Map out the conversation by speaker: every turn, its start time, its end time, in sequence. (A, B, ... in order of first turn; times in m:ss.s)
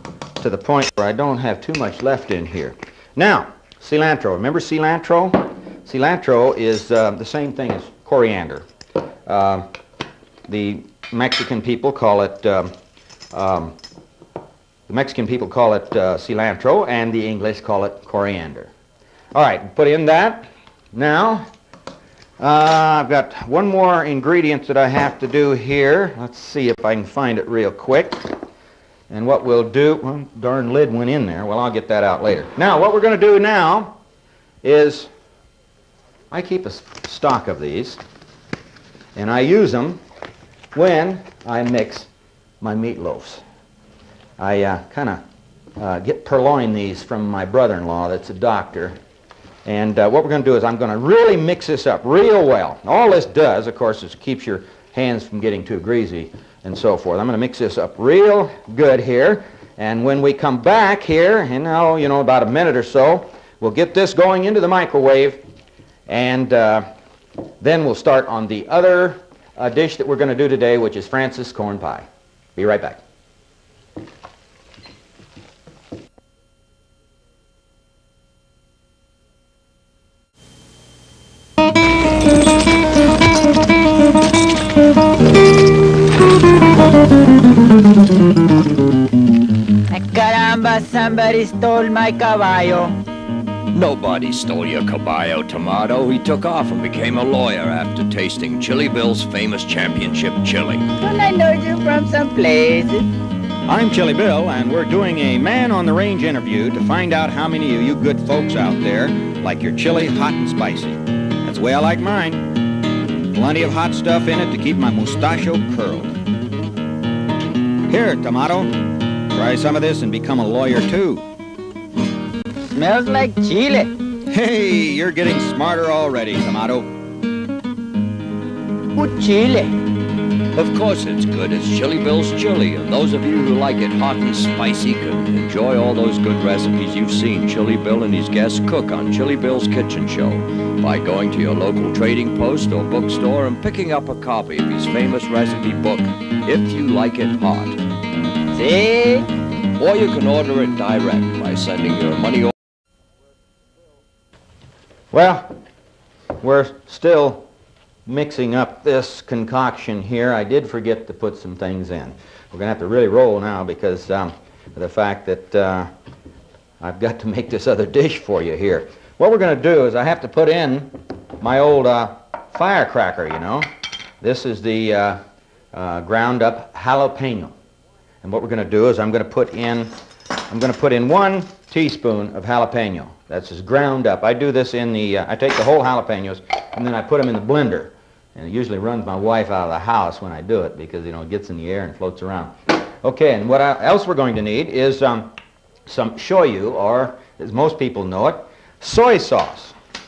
0:00.4-0:08.6 A
0:09.2-0:09.7 A
0:10.5-0:12.7 A
0:13.3-0:13.8 A
0:14.9-0:18.7 A
0:19.3-0:21.4 A
0:22.4-0:28.4 A
0:29.1-0:34.0 A
0:34.6-0:35.1 A
0:36.3-0:38.0 A
0:39.2-0:40.0 A
0:40.7-0:42.1 A
0:42.6-0:43.4 A
0:44.4-0:45.2 A
0:45.8-0:49.0 A
0:49.6-1:05.4 A
1:06.1-1:06.9 A
1:07.6-1:13.0 A
1:29.9-1:33.0 B
1:33.7-1:40.9 C
1:41.0-1:43.1 B
1:43.6-1:52.5 A
1:53.3-1:56.2 A
1:57.9-2:01.2 A
2:02.7-2:03.9 B
2:04.3-2:06.9 A
2:08.9-2:09.8 B
2:10.5-2:27.8 C
2:28.5-2:29.3 B
2:29.8-2:32.5 C
2:35.1-2:35.6 A
2:36.4-2:37.4 A
2:38.0-2:45.9 A
2:46.8-2:53.7 A
2:54.2-2:55.2 A
2:55.7-2:57.5 A
2:58.2-2:59.9 A
3:00.5-3:15.3 A
3:15.9-3:19.8 A